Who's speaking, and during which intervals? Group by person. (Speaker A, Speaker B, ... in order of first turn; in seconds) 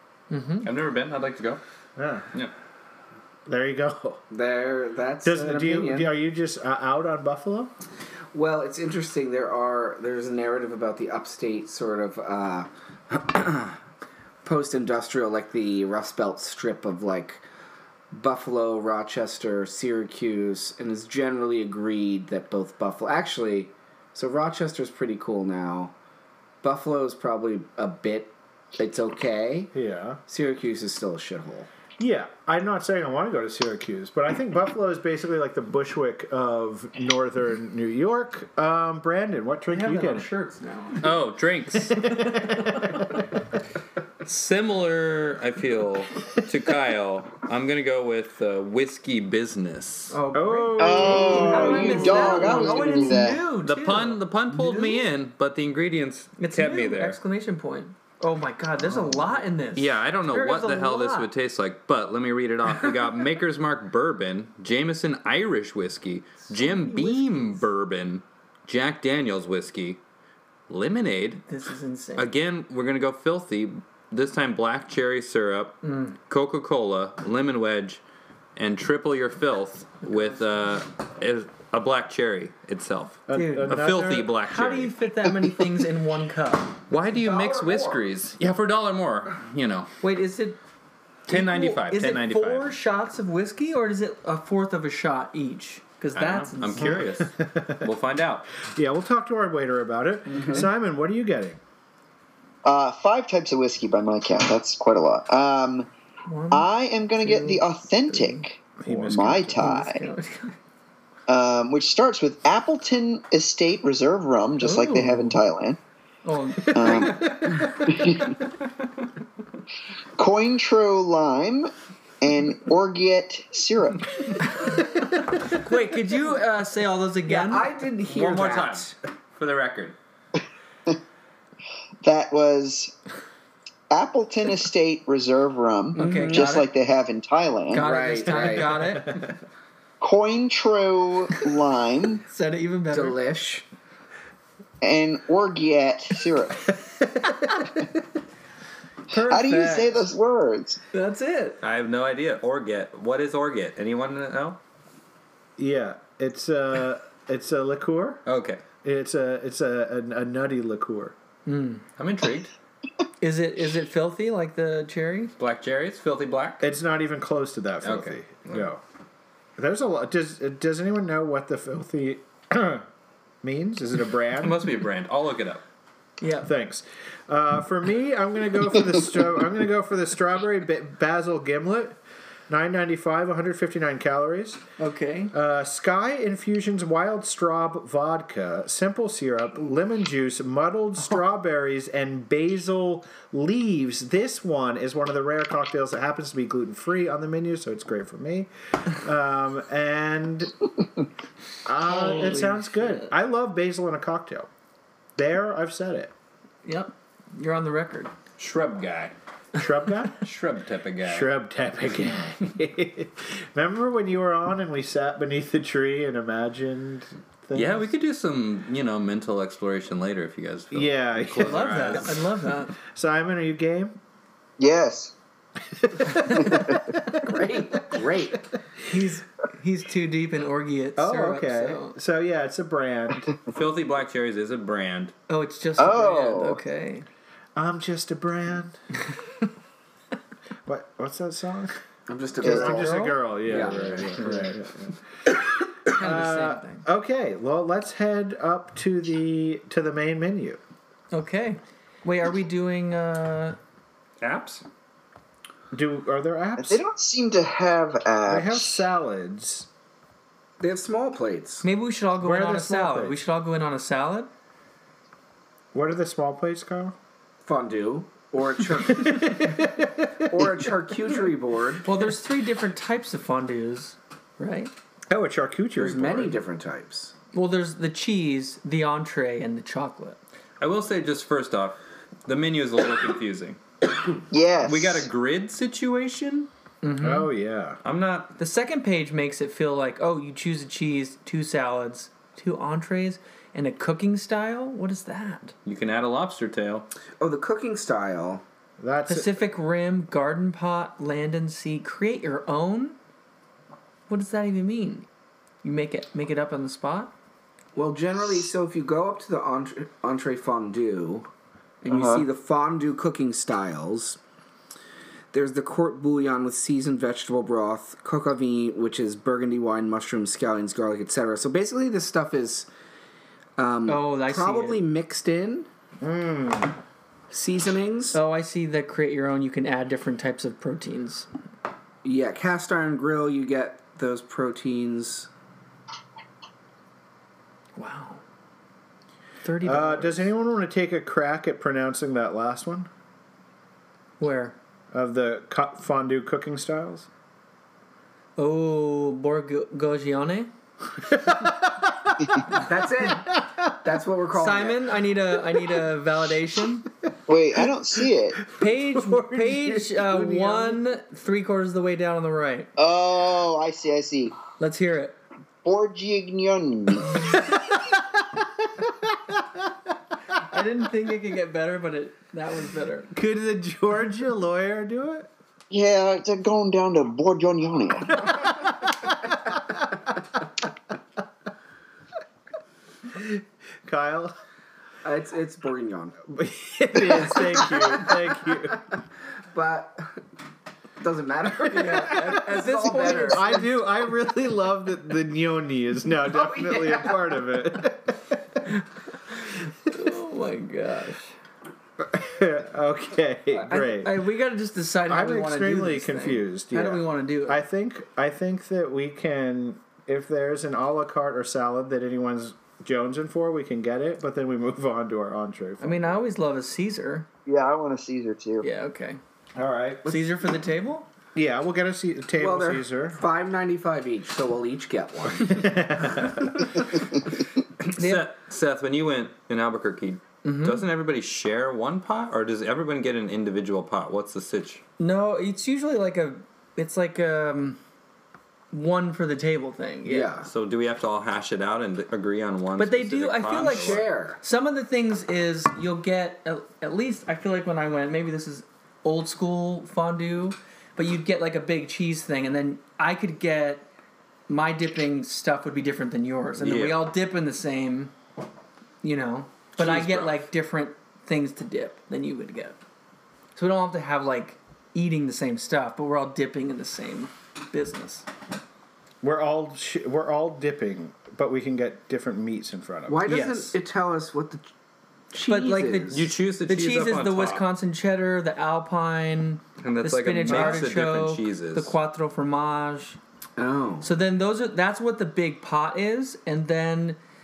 Speaker A: 0.3-0.7, 39.7-41.1, 42.5-42.8, 50.1-54.2, 56.4-61.3, 66.5-67.7, 71.5-72.3, 75.8-76.2, 83.3-83.8, 84.4-86.8, 90.0-90.6, 91.3-97.0, 106.3-108.5, 109.3-110.6, 114.6-115.4, 116.2-117.2, 125.4-127.7, 136.0-136.7, 137.7-139.2, 142.3-143.2, 149.1-149.9, 150.9-151.6, 161.5-161.8, 163.2-165.3, 176.2-176.5, 184.8-185.3, 201.8-203.1, 206.7-208.1, 221.4-222.7, 228.8-232.0, 235.3-237.1, 242.4-243.2, 245.9-246.8, 251.1-253.6, 261.6-264.3, 271.8-274.7, 277.3-280.2, 286.8-287.3, 288.4-295.5, 299.1-303.0, 304.1-305.1, 305.6-307.1, 323.9-324.8, 328.1-331.3, 337.8-338.2, 339.4-340.3, 344.2-344.6, 348.4-350.5, 354.3-356.9, 358.6-362.7, 364.6-365.2, 370.5-373.1, 391.7-393.7, 399.9-401.4, 403.7-407.6, 415.8-417.3, 418.6-419.2, 420.1-421.1, 427.9-428.3, 430.4-430.8, 435.0-437.8, 438.7-440.3, 442.8-453.9, 454.5-458.1, 459.0-462.8, 463.6-468.3, 473.3-473.8, 475.5-483.2, 484.0-487.2
Speaker B: 0.6-1.6, 41.0-42.1, 44.2-50.1, 53.6-57.2, 59.8-70.0, 70.7-71.5, 72.2-78.0, 78.6-84.9, 86.9-89.9, 91.3-92.7, 96.2-98.5, 128.1-129.9, 151.6-154.6, 158.3-158.6, 162.0-162.5, 165.4-166.7, 167.8-168.7, 174.4-175.6, 208.4-209.2, 210.2-211.3, 217.5-222.2, 233.5-235.1, 254.2-254.7, 280.6-283.6, 284.6-286.5, 287.8-288.4, 295.6-296.9, 427.8-434.8, 440.5-444.1, 456.6-457.0, 459.8-460.4, 476.1-477.6, 479.8-481.9
Speaker C: 2.0-2.3, 3.5-4.2, 5.2-7.7, 29.7-30.2, 32.0-40.3, 41.7-43.2, 50.3-52.8, 83.3-84.3, 96.8-97.9, 98.6-101.6, 108.8-109.7, 116.6-118.2, 138.7-139.3, 147.1-147.8, 155.6-158.2, 158.8-161.2, 166.6-168.8, 169.6-172.9, 173.4-174.7, 176.4-182.0, 182.5-184.6, 185.3-200.5, 201.7-204.5, 205.2-206.1, 209.6-210.2, 211.0-217.9, 220.7-222.2, 222.9-224.0, 225.8-227.9, 231.0-233.3, 237.6-238.8, 240.7-241.8, 242.4-250.6, 255.7-256.8, 258.3-259.7, 262.2-263.2, 265.7-266.9, 268.9-270.7, 275.1-276.4, 287.0-287.8, 298.8-299.4, 326.0-326.7, 339.6-342.9, 344.9-347.1, 351.1-353.8, 358.5-360.8, 367.2-369.7, 373.1-375.3, 378.2-380.0, 383.1-384.3, 386.3-388.8, 392.8-398.6, 402.0-404.1, 405.1-416.1, 419.6-420.1, 421.4-423.2, 425.3-426.7, 469.2-473.3, 480.5-480.8
Speaker D: 4.3-6.1, 8.3-13.8, 14.4-17.4, 18.1-25.9, 26.6-29.7, 30.3-31.7, 51.6-53.2, 87.5-87.8, 100.3-100.7, 127.3-128.9, 135.9-136.6, 137.8-139.0, 142.9-143.7, 227.2-228.5, 242.1-244.5, 260.6-261.6, 267.4-269.3, 270.3-271.9, 275.8-277.1, 297.2-298.4, 307.8-311.3, 311.8-314.2, 315.3-322.7, 323.6-325.7, 327.3-328.2, 332.0-335.3, 352.5-354.9, 385.0-386.2, 387.0-388.5, 389.5-390.2, 391.0-393.6, 396.3-397.2, 422.4-426.9, 440.1-440.5, 443.6-444.4, 473.1-474.7, 475.3-476.3, 483.6-484.1
Speaker E: 50.8-53.4, 102.6-105.9, 106.5-110.0, 111.3-115.8, 116.7-118.4, 120.2-124.5, 132.0-132.9, 133.9-137.9, 140.0-142.2, 144.8-146.8, 149.1-150.8, 224.6-225.1, 226.4-226.8, 235.8-236.6, 242.4-242.7, 256.6-258.8, 284.3-285.1, 311.9-312.2, 357.3-358.4, 362.8-364.4, 365.6-367.3, 375.7-378.3, 417.5-418.6